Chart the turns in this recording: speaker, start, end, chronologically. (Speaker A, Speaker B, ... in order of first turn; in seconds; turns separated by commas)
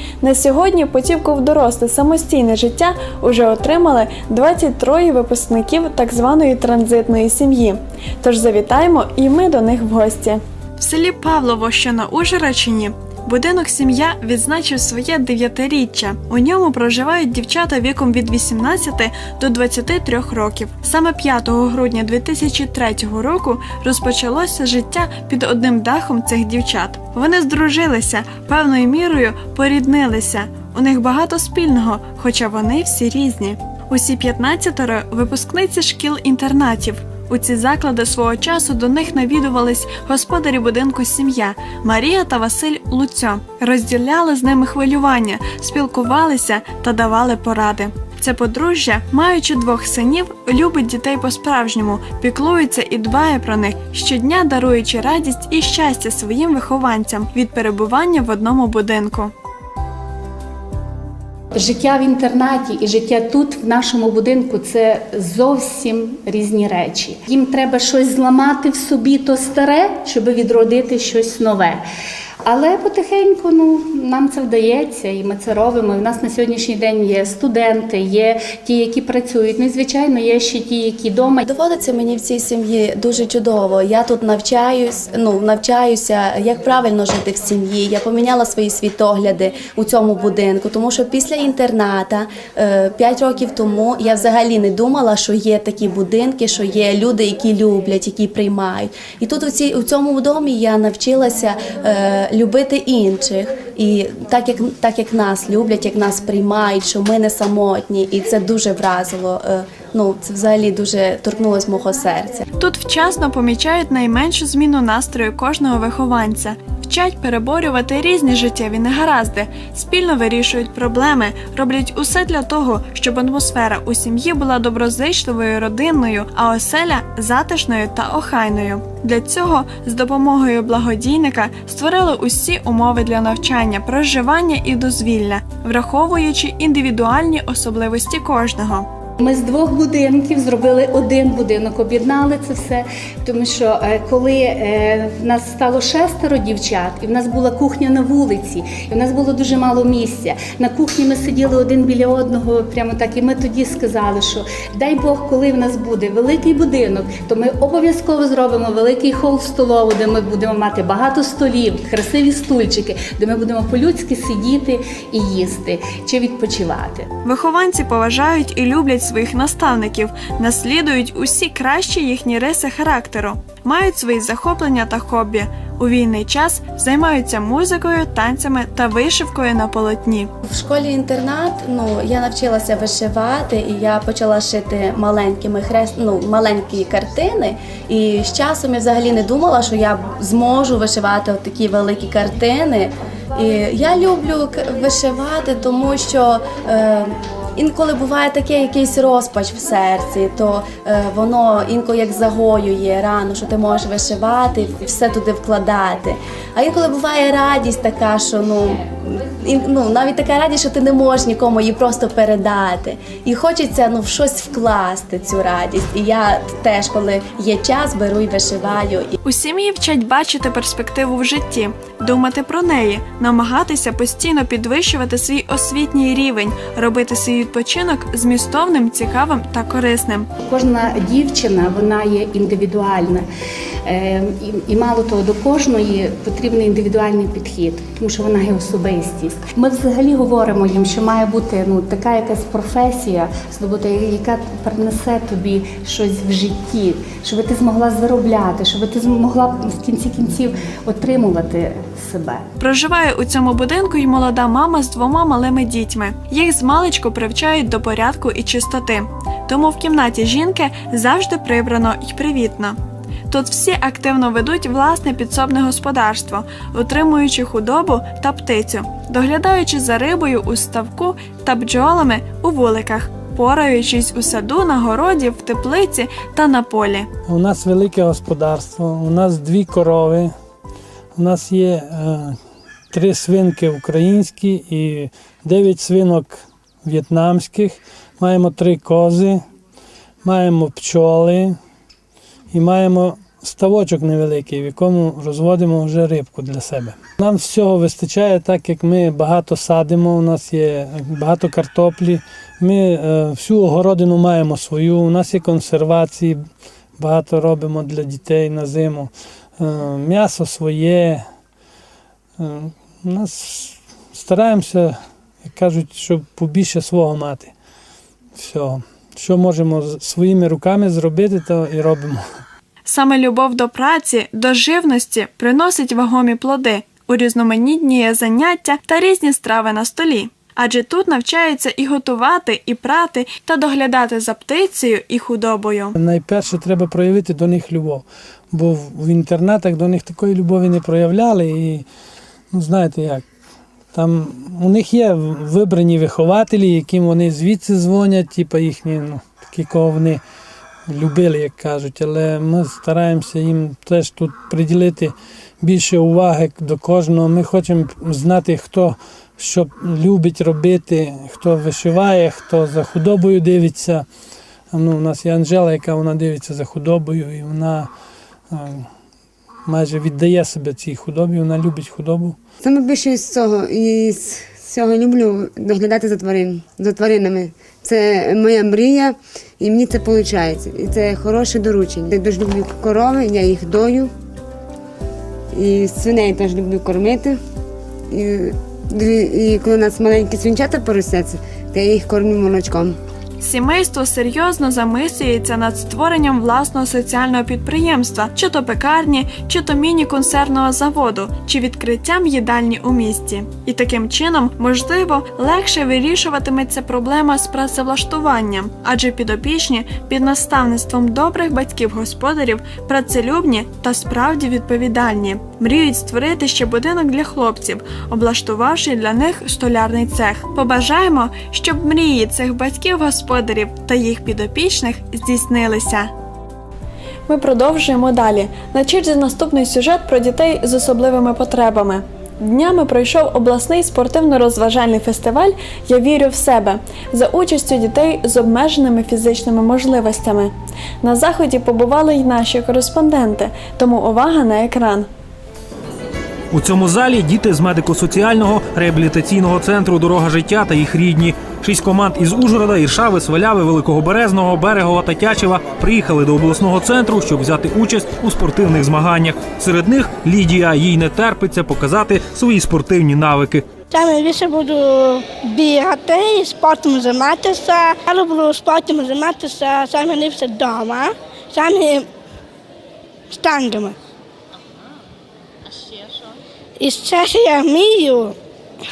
Speaker A: 0.2-59.3, Speaker B: 61.5-71.8, Speaker B: 72.4-81.4, Speaker C: 81.5-112.4, Speaker A: 112.6-138.9, Speaker B: 139.2-167.1, Speaker A: 167.2-180.3, Speaker C: 180.5-219.1, Speaker A: 219.2-230.3, Speaker B: 230.4-233.2, Speaker B: 233.8-252.4, Speaker A: 252.6-262.8, Speaker A: 263.3-277.1, Speaker D: 277.3-280.3, Speaker D: 281.1-282.4, Speaker D: 282.9-289.4, Speaker D: 290.2-291.6, Speaker D: 292.5-306.4, Speaker D: 307.0-311.2, Speaker D: 312.4-314.9, Speaker D: 315.4-317.5, Speaker D: 318.4-322.2, Speaker A: 322.8-335.9, Speaker D: 336.0-341.9, Speaker D: 342.5-343.2, Speaker D: 343.9-350.2, Speaker D: 350.9-364.0, Speaker D: 364.7-367.9, Speaker D: 368.5-368.9, Speaker D: 369.6-372.4, Speaker E: 372.6-384.1, Speaker E: 385.5-387.4, Speaker E: 388.1-393.0, Speaker A: 393.4-426.1, Speaker A: 427.3-445.1, Speaker F: 446.5-463.7, Speaker G: 463.9-472.1, Speaker G: 473.3-473.9, Speaker G: 476.8-478.4